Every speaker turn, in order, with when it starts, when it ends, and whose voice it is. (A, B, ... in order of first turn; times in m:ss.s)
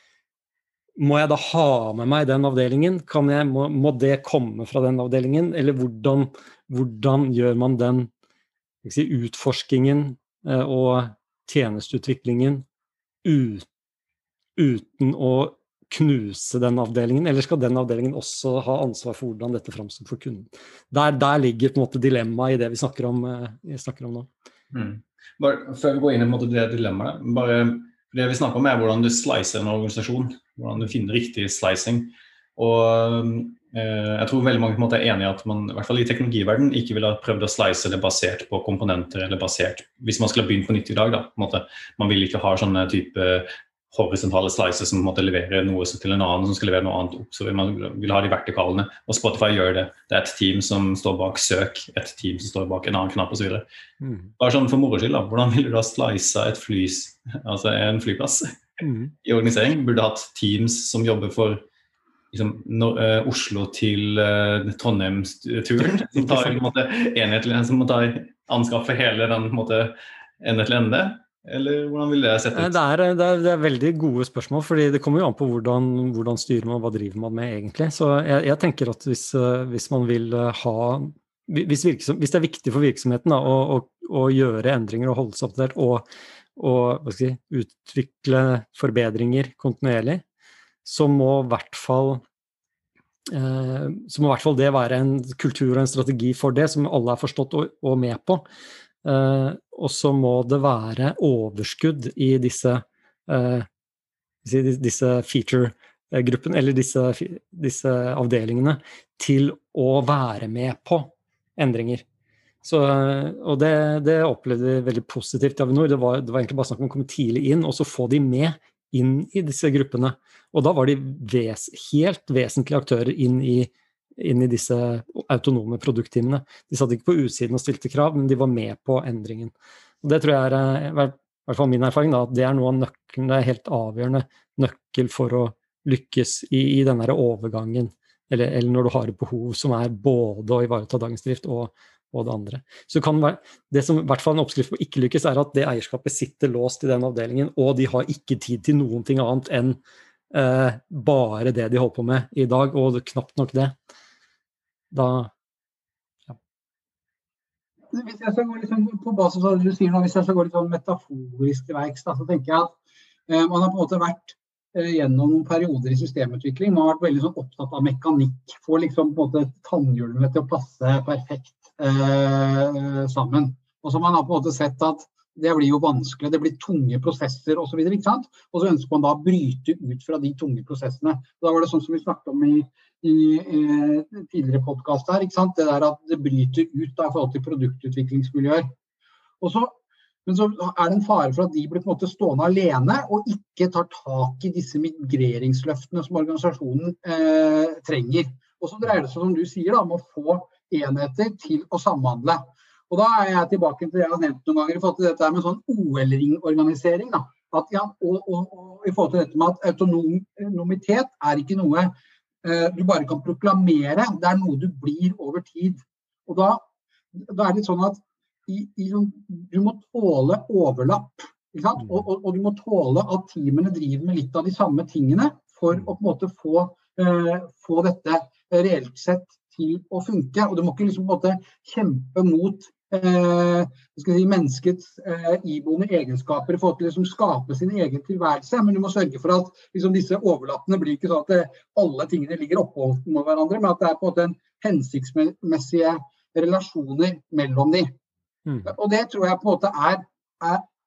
0:01.0-0:08.1 A
0:08.8-0:12.6 A
0:13.2-0:13.6 A
0:14.6-0:24.3 A
0:24.7-0:53.6 B
0:54.0-0:54.3 A
0:54.4-0:58.4 B
0:58.8-0:59.1 A
0:59.2-1:01.6 B
1:02.3-1:12.8 B
1:05.8-1:06.7 A
1:12.5-1:30.2 A
1:30.8-1:32.2 A
1:33.3-1:38.4 A
1:39.0-1:43.7 A
1:44.4-1:52.0 A
1:52.6-2:29.8 A
2:30.3-2:33.7 A
2:34.9-2:35.3 A
2:37.9-2:42.7 C
2:43.3-3:08.7 C
3:09.4-3:09.7 C
3:10.2-3:36.6 C
3:37.2-4:07.9 C
4:08.4-4:08.7 A
4:08.6-4:10.6 C